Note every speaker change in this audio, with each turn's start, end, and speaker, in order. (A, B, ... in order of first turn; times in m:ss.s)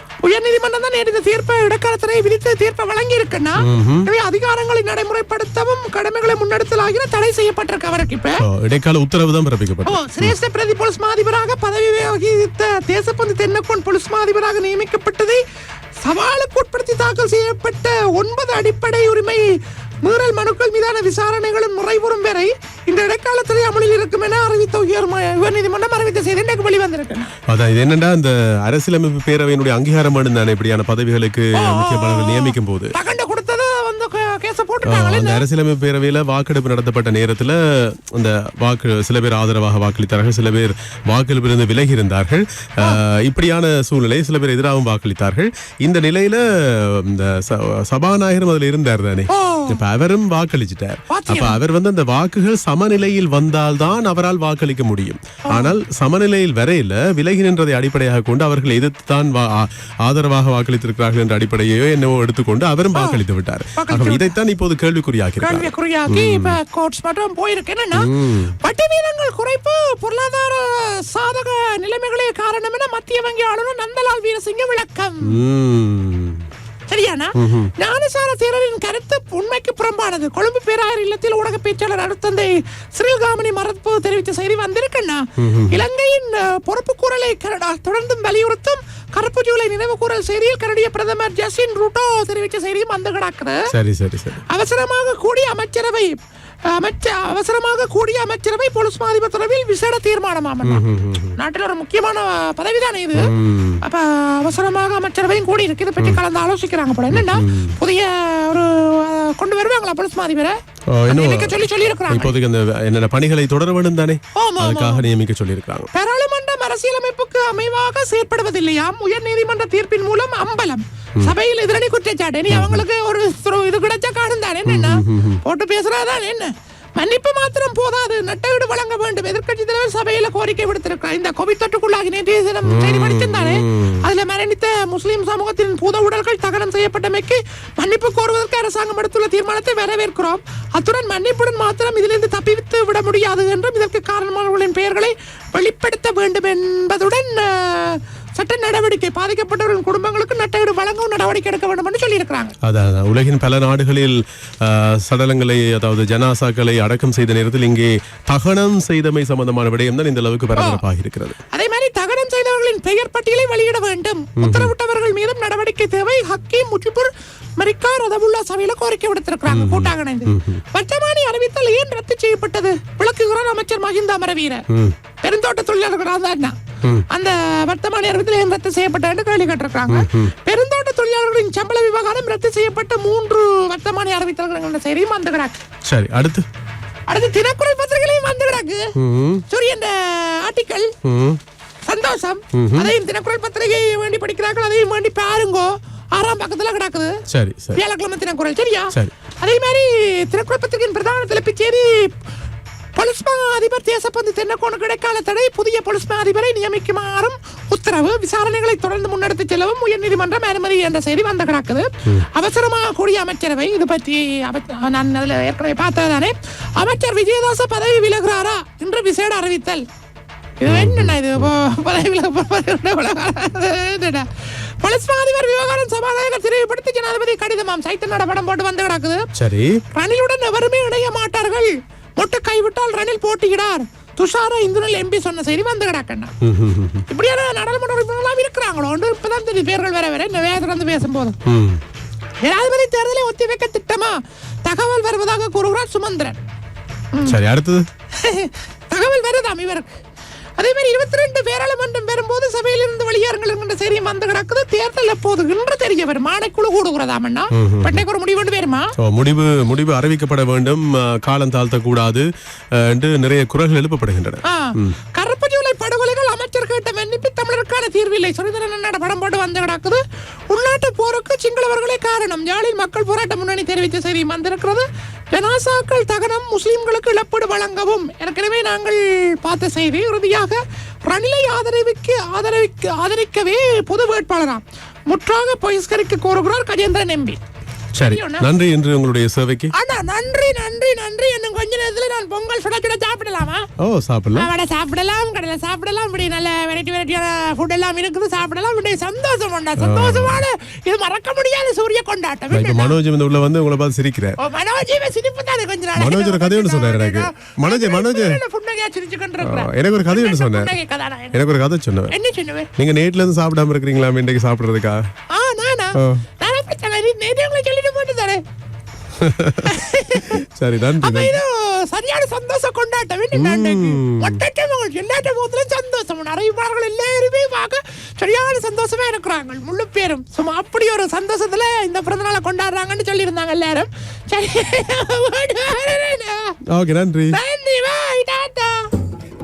0:00.2-0:08.4 A
0:03.6-0:04.1 B
0:08.4-0:10.4 B
0:09.8-0:15.4 A
0:16.0-0:19.5 A
0:20.0-0:27.3 A
0:27.5-0:32.9 B
0:31.5-0:35.4 A
0:34.8-1:06.6 B
0:49.3-0:49.8 A
0:51.1-0:51.6 A
0:55.5-0:55.7 A
1:02.9-1:03.2 A
1:03.8-1:04.4 A
1:05.4-1:08.1 A
1:07.9-1:08.5 B
1:08.6-1:15.4 A
1:15.2-1:16.4 B
1:16.9-1:33.6 A
1:17.3-1:17.7 B
1:25.4-1:25.8 B
1:33.7-1:34.4 B
1:34.5-1:36.2 A
1:36.7-1:40.8 A
1:40.6-1:41.4 B
1:41.4-1:52.3 A
1:43.1-1:43.8 B
1:47.1-1:47.7 B
1:50.9-1:55.9 B
1:54.4-1:55.0 A
1:55.9-2:32.5 A
2:02.5-2:02.8 B
2:04.6-2:05.4 B
2:12.6-2:14.0 B
2:32.6-2:41.4 B
2:40.6-2:40.8 A
2:41.5-2:54.6 A
2:44.4-2:44.7 B
2:49.5-2:50.6 B
2:54.7-2:55.0 B
2:55.2-2:56.6 A
2:57.1-3:05.6 A
2:59.9-3:00.3 B
3:05.8-3:06.4 B
3:07.1-3:08.9 A
3:09.0-3:09.4 B
3:09.5-3:10.9 A
3:11.0-3:11.4 B
3:11.8-3:17.1 A
3:12.5-3:12.9 B
3:17.3-3:17.8 B
3:17.7-3:22.1 A
3:23.0-3:39.8 A
3:40.6-3:49.2 A
3:40.6-3:41.5 B
3:49.3-3:49.8 B
3:49.9-3:56.3 A
3:56.4-3:57.0 B
3:57.1-4:01.4 A
4:01.4-4:01.8 B
4:02.4-4:06.4 A
4:07.1-4:07.4 A
4:07.2-4:07.9 B
4:08.2-4:09.9 A
4:10.6-4:18.9 A
4:17.5-4:18.0 B
4:19.0-4:25.0 B
4:24.4-4:47.4 A
4:47.9-4:49.7 B
4:48.0-4:48.4 A
4:49.7-4:53.6 A
4:53.8-4:54.5 B
4:54.3-5:03.0 A
4:59.8-5:00.4 B
5:02.5-5:04.4 B
5:04.4-5:11.4 A
5:05.9-5:08.4 B
5:09.4-5:10.7 B
5:11.3-5:12.1 B
5:12.1-5:12.7 A
5:12.8-5:15.0 B
5:15.3-5:18.4 A
5:15.9-5:16.2 B
5:19.2-5:21.4 B
5:19.6-5:20.4 A
5:21.0-5:36.6 A
5:23.3-5:24.4 B
5:36.7-5:37.4 B
5:37.3-5:38.9 A